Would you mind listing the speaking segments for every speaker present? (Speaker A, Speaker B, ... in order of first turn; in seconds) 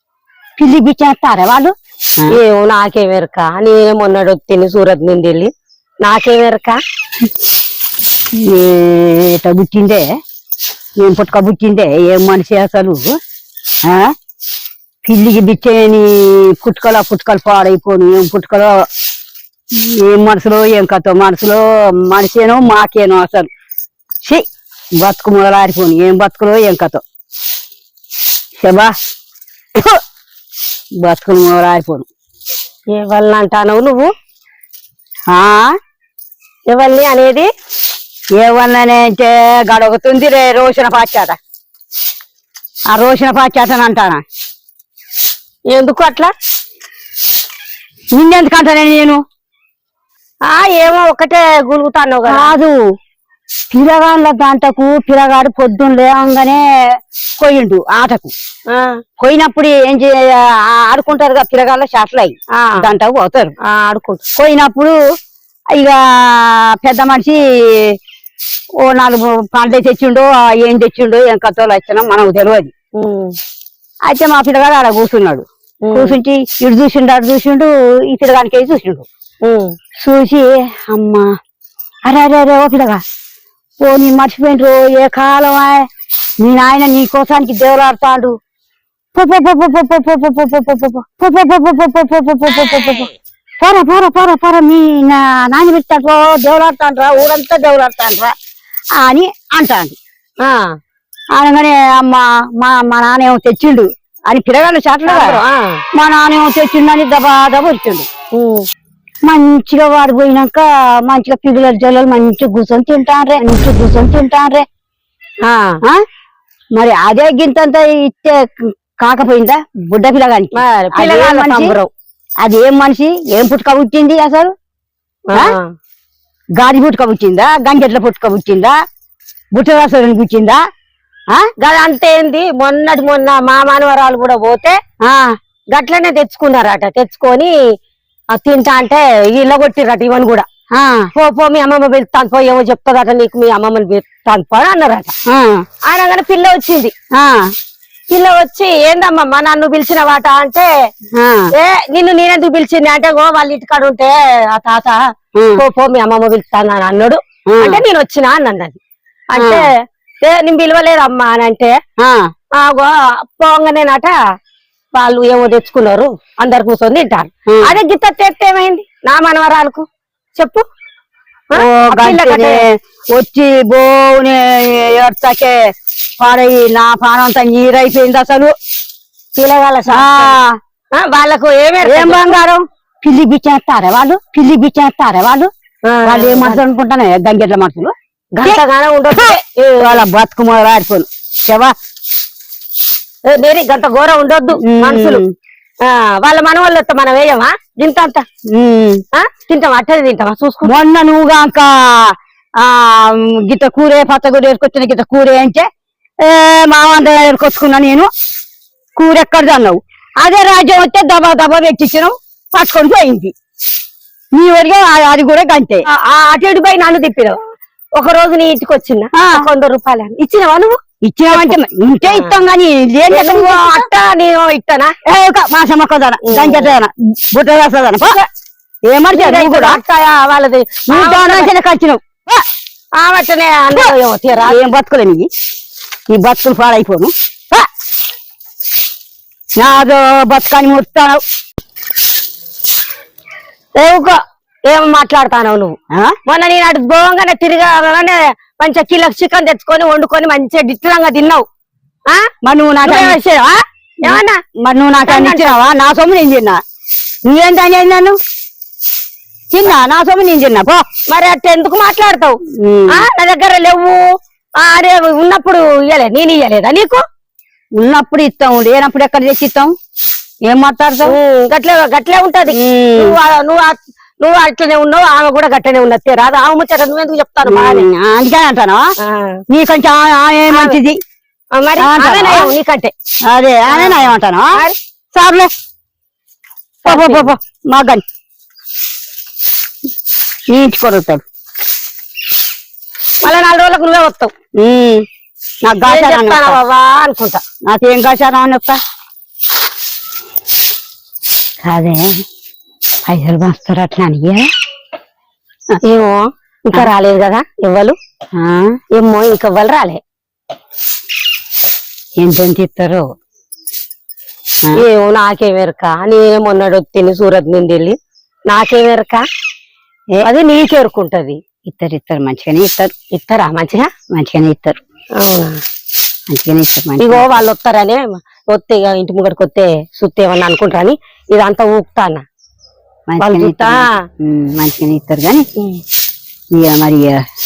Speaker A: 0.6-2.4, 8.4-10.0, 11.0-13.1, 13.8-14.1, 15.0-18.8, 19.8-23.5, 25.0-27.0, 28.6-28.9, 31.0-32.1, 35.3-35.7, 38.4-41.3, 42.9-44.2, 48.1-49.2, 52.2-52.8, 53.7-56.6, 57.4-58.3, 59.2-63.5, 64.4-65.0, 65.7-68.0, 68.8-72.7, 74.0-79.0, 80.0-81.3, 82.0-83.0, 83.8-85.8, 86.4-88.3, 89.1-98.3, 99.0-100.0, 101.3-105.4, 106.0-108.0, 109.3-114.6, 116.8-121.7, 122.4-124.5, 126.6-128.7, 129.5-130.6, 135.0-135.3, 140.7-141.1, 145.3-145.6, 147.1-147.5, 151.2-151.5, 155.3-155.6, 157.5-157.8, 159.4-159.6, 162.0-162.3, 167.5-167.7, 171.6-175.6, 176.2-178.5, 179.9-180.6, 181.8-185.5, 186.1-188.6, 189.1-191.7, 194.6-195.3, 198.5-199.0, 200.6-205.7, 206.2-208.1, 208.9-213.3, 214.3-215.8, 219.1-219.4, 221.0-223.9, 225.0-228.2, 228.9-229.8, 230.9-232.4, 234.4-235.3, 236.1-237.6, 239.6-241.2, 252.4-253.2, 254.1-256.6, 257.3-258.1, 259.5-260.8, 262.6-263.0, 267.8-269.7, 270.5-271.1, 272.5-273.1, 277.5-278.8, 279.5-280.9, 281.8-282.5, 283.3-284.6, 285.1-285.5, 286.9-288.0, 290.5-291.2, 294.6-295.0, 295.6-296.6, 297.7-298.8, 301.6-302.2, 303.1-304.5, 308.4-308.8, 312.2-313.1, 321.6-322.9, 324.1-324.8, 326.3-327.3, 333.1-335.4, 336.5-337.2
Speaker B: 2.3-5.5, 6.0-6.8, 32.9-34.1, 36.7-37.5, 45.7-46.3, 50.5-52.5, 58.7-59.0, 62.5-62.9, 63.6-64.2, 72.9-73.3, 75.8-76.2, 79.4-79.7, 100.4-100.7, 105.0-105.8, 108.3-108.7, 115.4-115.8, 120.5-121.9, 125.3-125.7, 131.6-134.8, 135.7-137.5, 138.3-140.4, 141.1-145.1, 145.8-146.9, 148.1-150.7, 151.5-155.0, 155.6-158.8, 159.3-161.8, 162.5-164.2, 164.9-170.7, 171.5-172.6, 179.3-180.3, 180.9-182.3, 185.8-186.6, 188.3-190.0, 193.3-195.2, 195.8-198.2, 199.1-200.7, 215.9-217.4, 217.9-222.3, 223.1-224.9, 226.2-226.7, 229.1-231.5, 232.9-234.6, 243.8-251.4, 252.8-254.4, 255.1-255.6, 261.1-262.4, 262.9-264.1, 264.6-267.0, 271.1-277.9, 279.0-279.4, 280.5-280.8, 281.6-282.9, 283.7-284.8, 286.9-287.3, 293.2-294.3, 295.9-297.4, 305.8-308.0, 308.9-310.0, 314.7-318.0, 318.5-319.2, 320.2-321.4, 323.1-323.9, 325.2-325.6, 327.0-332.2, 333.2-334.0